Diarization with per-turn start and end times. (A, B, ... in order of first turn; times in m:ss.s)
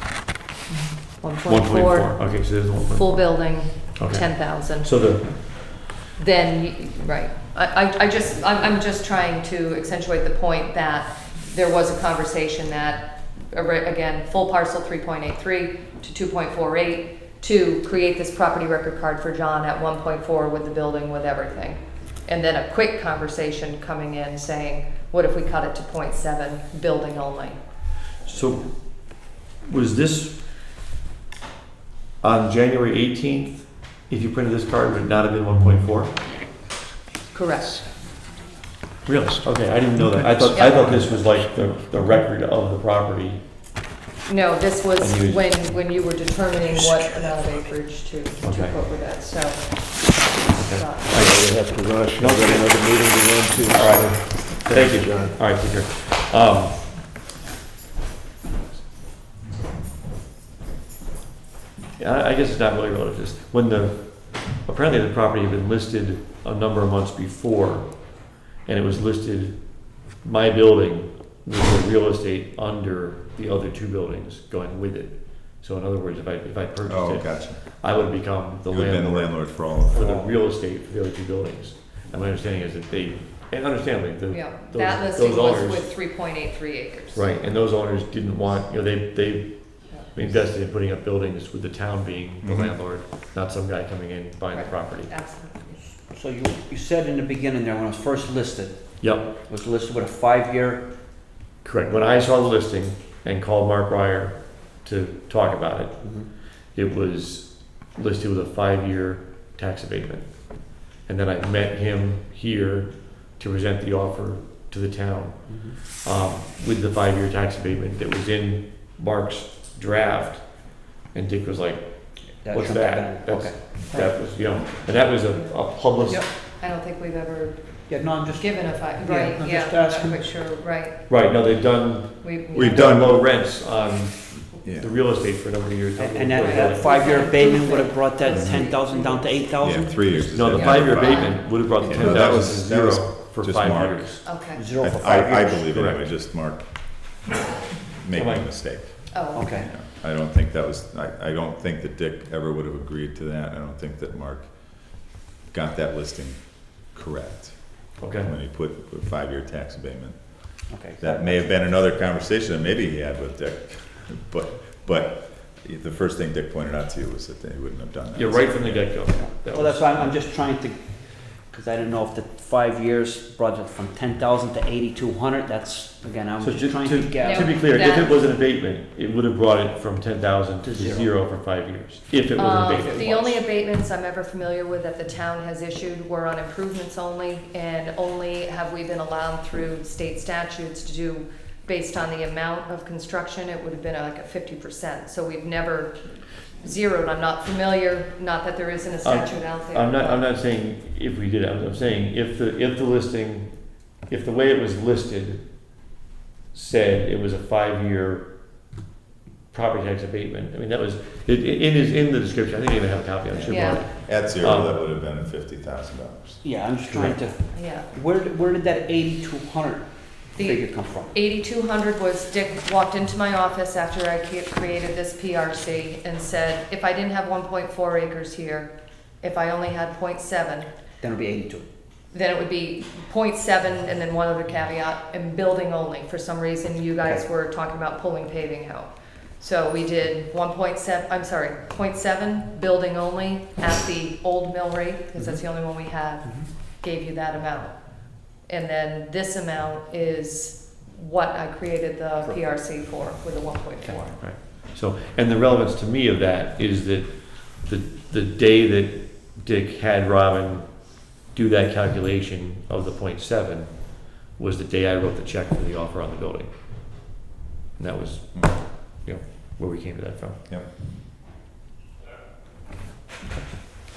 0:01.2-0:02.2 A
0:01.5-0:05.8 B
0:02.9-0:05.3 A
0:06.1-0:27.6 A
0:28.2-0:28.7 B
0:29.6-0:30.4 B
0:32.2-0:36.2 B
0:37.3-0:37.8 A
0:39.1-0:39.4 C
0:39.1-0:43.4 B
0:40.2-0:40.6 C
0:40.5-0:41.1 A
0:44.2-0:51.3 A
0:45.0-0:45.5 B
0:48.4-0:48.7 B
0:50.6-0:52.8 B
0:51.1-0:55.4 C
0:53.7-0:56.9 B
1:02.0-1:25.9 B
1:16.8-1:17.6 D
1:18.7-1:20.1 D
1:20.0-1:20.3 E
1:24.3-1:27.3 A
1:27.1-1:35.1 B
1:32.4-1:32.7 D
1:34.5-1:35.9 A
1:36.1-1:40.9 E
1:39.0-1:39.3 B
1:41.6-1:46.1 B
1:46.0-1:46.3 E
1:46.7-2:06.2 B
1:55.5-1:55.8 E
2:02.4-2:04.1 E
2:06.1-2:07.8 A
2:07.9-2:10.2 E
2:08.3-2:11.1 A
2:11.1-2:17.2 B
2:12.2-2:13.0 A
2:12.5-2:13.2 D
2:14.5-2:14.9 D
2:16.0-2:20.1 E
2:16.4-2:19.3 A
2:18.3-2:18.6 D
2:19.6-2:24.1 D
2:20.3-2:24.2 B
2:20.5-2:21.4 A
2:24.2-2:24.6 A
2:24.5-2:25.6 E
2:24.8-2:26.6 D
2:25.7-2:26.1 B
2:28.0-2:34.9 D
2:28.1-2:28.4 B
2:29.1-2:29.6 A
2:29.3-2:29.7 E
2:35.5-2:40.4 D
2:38.0-2:38.3 B
2:40.7-2:41.4 E
2:41.0-2:49.0 D
2:48.1-2:50.1 B
2:49.5-2:57.5 E
2:56.4-3:03.4 B
2:57.2-2:58.1 A
3:00.6-3:01.1 E
3:02.4-3:16.0 A
3:16.6-3:20.3 A
3:19.0-3:23.5 B
3:24.1-3:25.4 B
3:26.5-3:28.3 B
3:29.5-3:34.8 B
3:33.4-3:33.8 A
3:33.8-3:36.4 D
3:36.4-3:41.1 E
3:36.8-3:37.2 B
3:37.5-3:37.9 A
3:40.3-3:50.7 A
3:51.0-3:51.7 E
3:52.1-4:07.8 A
4:08.4-4:14.1 A
4:14.2-4:26.5 B
4:27.8-4:30.4 B